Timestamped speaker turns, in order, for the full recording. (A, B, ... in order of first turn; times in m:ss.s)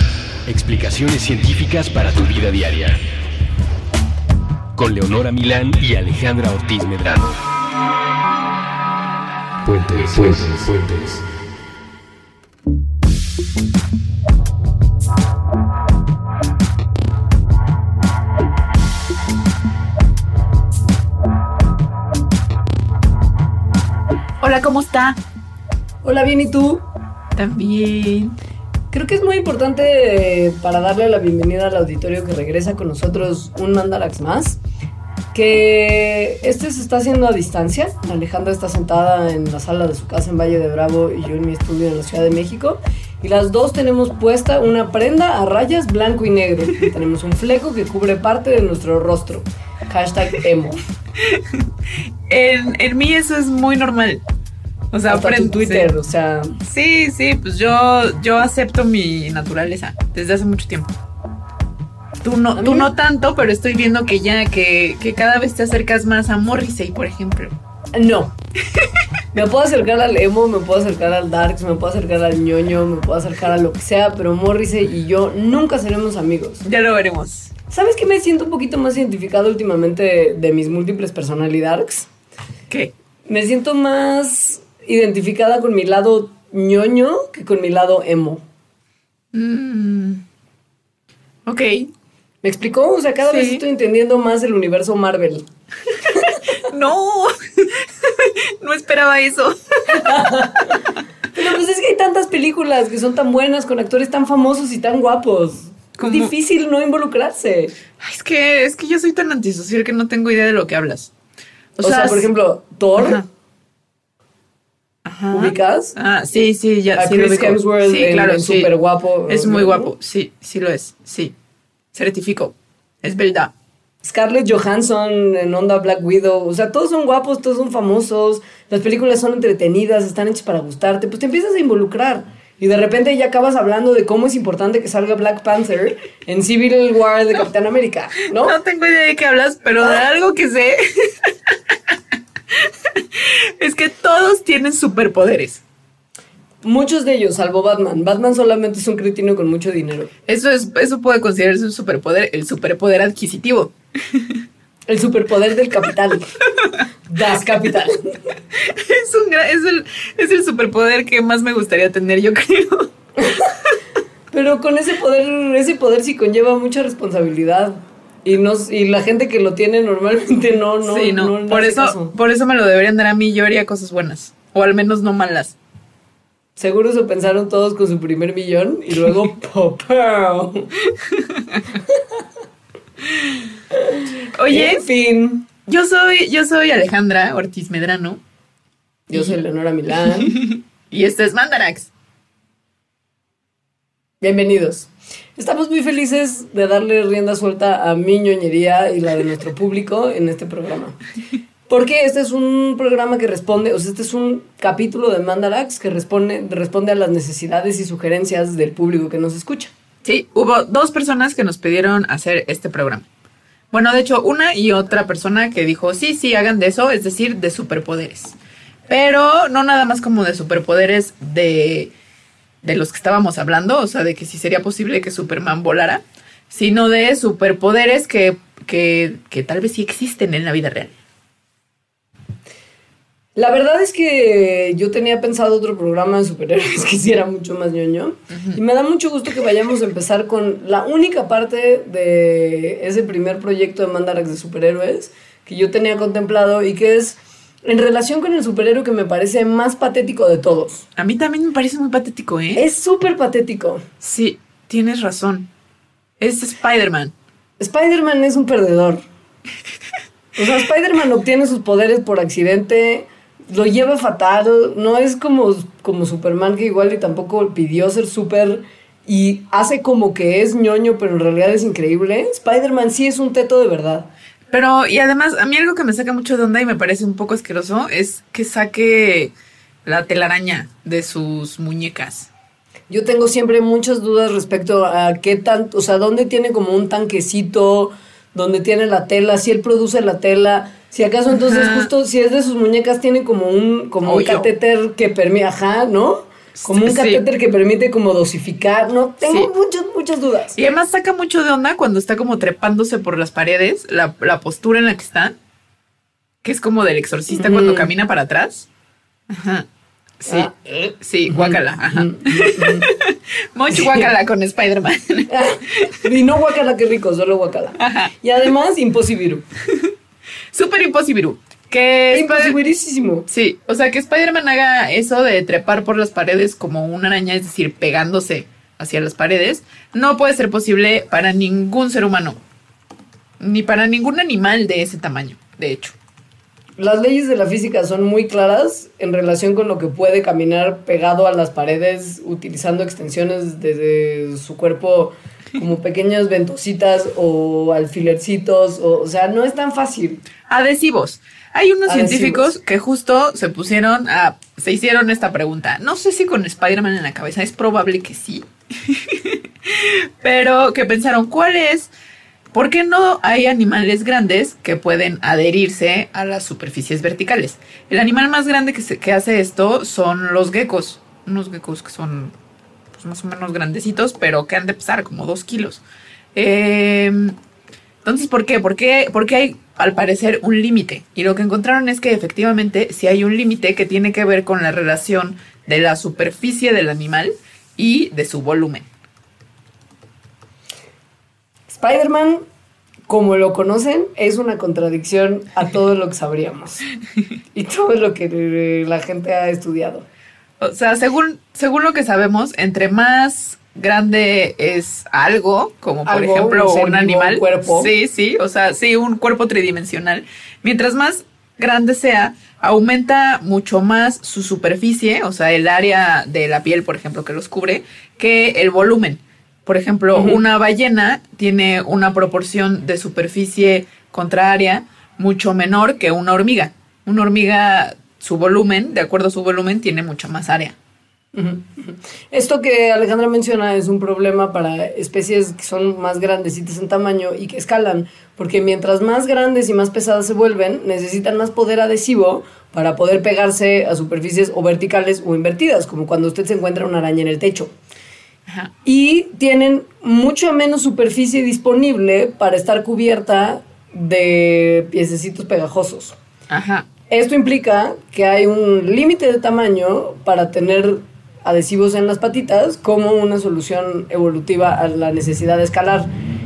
0:00.4-0:03.1 A
0:04.8-0:07.4 A
0:09.6-0:11.3 A
0:24.4-0:25.2 B
0:26.0-0:26.8 C
0:27.4-0:28.4 B
0:28.9-0:34.6 C
0:35.3-0:50.8 C
0:51.3-0:51.6 B
0:52.3-0:54.2 B
0:54.9-0:55.9 B
0:55.1-0:56.6 C
0:56.6-1:00.9 B
1:02.2-1:07.6 B
1:02.6-1:02.9 C
1:08.0-1:08.3 C
1:09.3-1:16.6 C
1:16.6-1:17.5 B
1:17.7-1:22.1 C
1:23.3-1:28.4 C
1:29.3-1:30.2 B
1:31.5-1:31.9 B
1:32.4-1:35.4 C
1:33.3-1:33.6 B
1:36.1-1:36.4 C
1:36.6-1:40.1 B
1:39.9-1:40.8 C
1:41.4-1:47.7 C
1:46.0-1:46.3 B
1:48.0-1:51.1 B
1:51.8-1:52.3 B
1:51.8-1:53.2 C
1:53.0-1:53.2 B
1:55.1-1:58.7 B
1:55.3-1:56.0 C
1:57.0-1:59.9 C
1:59.3-2:01.3 B
2:01.9-2:03.5 B
2:04.0-2:18.6 C
2:18.4-2:21.3 B
2:22.5-2:25.6 B
2:26.6-2:30.1 C
2:30.3-2:34.4 B
2:34.9-2:36.3 C
2:37.1-2:38.3 C
2:38.6-2:42.9 B
2:43.2-2:43.6 C
2:44.3-2:52.1 C
2:50.8-2:55.6 B
2:56.6-3:00.7 C
3:00.9-3:01.7 B
3:03.7-3:05.5 C
3:04.4-3:04.8 B
3:05.7-3:08.2 B
3:09.1-3:10.4 C
3:10.2-3:11.9 B
3:14.2-3:21.0 C
3:21.7-3:29.7 C
3:30.0-3:33.0 B
3:33.7-3:38.4 B
3:38.9-3:41.9 B
3:42.6-3:50.9 B
3:53.4-4:10.8 C
3:58.3-3:58.6 B
4:11.0-4:12.6 B
4:12.6-4:13.8 C
4:14.0-4:15.5 B
4:16.2-4:17.1 B
4:17.6-4:19.0 C
4:20.4-4:34.1 C
4:34.5-4:39.3 B
4:39.8-4:42.3 B
4:42.9-5:00.6 C
4:51.3-4:51.9 B
4:54.0-4:54.5 B
4:56.6-4:57.2 B
5:00.6-5:05.3 B
5:06.4-5:08.7 B
5:07.3-5:07.9 C
5:09.3-5:09.7 B
5:10.2-5:10.5 B
5:10.3-5:12.9 C
5:11.0-5:15.9 B
5:13.8-5:14.1 C
5:15.3-5:19.4 C
5:17.8-5:18.1 B
5:20.5-5:22.6 B
5:22.1-5:23.3 C
5:23.3-5:32.4 B
5:33.4-5:35.9 B
5:36.8-5:50.2 C
5:50.5-6:01.9 B
5:51.9-5:52.5 C
6:02.5-6:12.3 B
6:13.0-6:15.8 B
6:16.4-6:17.4 B
6:18.0-6:28.9 B
6:31.7-6:32.4 C
6:33.1-6:36.8 C
6:37.6-6:40.1 C
6:40.6-7:10.8 B
6:46.1-6:47.9 C
7:00.2-7:00.4 C
7:11.4-7:27.7 C
7:28.5-7:28.7 B
7:28.8-7:36.2 C
7:36.5-7:36.9 B
7:37.1-7:46.1 C